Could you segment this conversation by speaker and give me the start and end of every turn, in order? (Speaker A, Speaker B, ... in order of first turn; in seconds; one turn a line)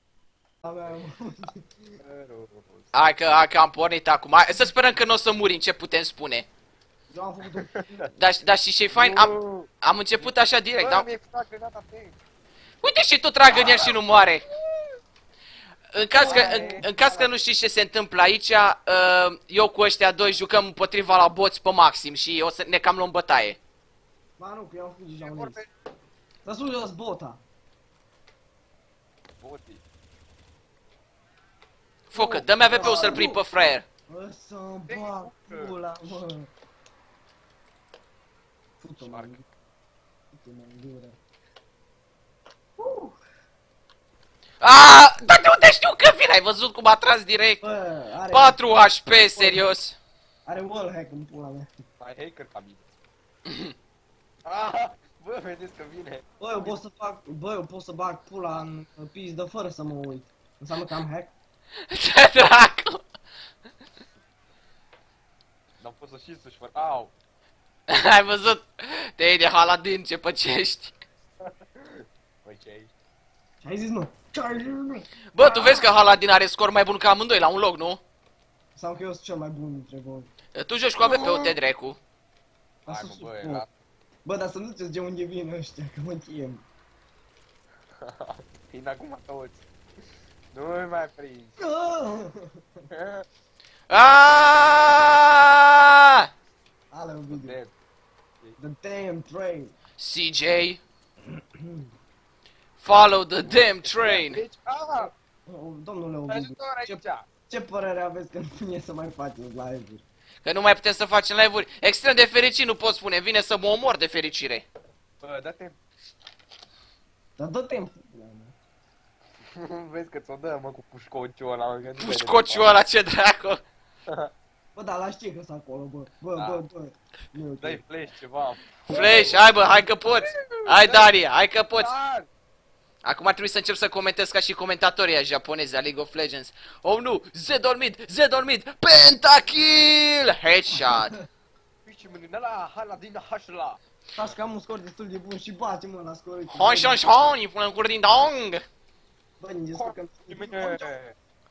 Speaker A: 0.6-2.0
Speaker B: 2.0-3.5
Speaker C: 2.9-6.5
Speaker A: 7.1-8.5
Speaker B: 7.6-8.1
Speaker C: 8.2-11.1
Speaker B: 8.9-12.2
Speaker C: 12.8-14.4
Speaker B: 13.5-14.0
Speaker C: 15.9-23.6
Speaker A: 16.2-17.3
Speaker B: 16.2-16.9
Speaker A: 24.4-25.6
Speaker B: 25.2-25.7
Speaker A: 26.4-27.4
Speaker B: 29.4-29.8
Speaker C: 32.1-33.8
Speaker B: 32.1-33.2
Speaker A: 32.6-33.4
Speaker A: 34.1-36.5
Speaker B: 34.9-35.8
Speaker A: 38.8-39.4
Speaker B: 39.0-39.4
Speaker A: 40.3-41.2
Speaker A: 42.8-43.2
Speaker C: 44.6-47.6
Speaker A: 47.6-48.6
Speaker C: 48.3-50.0
Speaker A: 49.1-49.7
Speaker A: 50.5-51.7
Speaker B: 52.0-52.9
Speaker C: 53.5-53.7
Speaker B: 54.5-56.8
Speaker A: 56.4-61.3
Speaker C: 61.9-63.0
Speaker B: 65.8-67.1
Speaker C: 67.9-70.9
Speaker B: 71.5-72.9
Speaker A: 73.6-75.9
Speaker C: 75.3-78.0
Speaker A: 78.8-80.3
Speaker C: 80.5-82.0
Speaker A: 81.0-81.6
Speaker A: 82.9-83.7
Speaker B: 82.9-83.7
Speaker A: 84.2-86.7
Speaker B: 88.0-89.7
Speaker B: 90.5-91.6
Speaker A: 91.6-92.7
Speaker B: 92.9-93.2
Speaker C: 93.9-96.3
Speaker A: 96.9-97.6
Speaker B: 97.3-97.7
Speaker A: 98.6-99.8
Speaker C: 100.0-100.8
Speaker A: 101.3-101.9
Speaker C: 102.8-104.4
Speaker B: 103.4-105.1
Speaker A: 105.0-110.0
Speaker B: 106.3-107.3
Speaker C: 110.4-114.7
Speaker B: 115.2-115.8
Speaker A: 117.4-118.5
Speaker B: 119.5-122.8
Speaker C: 122.0-123.6
Speaker A: 124.8-127.8
Speaker B: 126.4-126.6
Speaker B: 127.6-131.2
Speaker C: 128.8-131.9
Speaker B: 131.7-132.3
Speaker C: 133.0-141.2
Speaker B: 141.9-144.4
Speaker A: 144.2-147.0
Speaker C: 146.5-148.6
Speaker A: 149.4-150.9
Speaker B: 149.7-151.2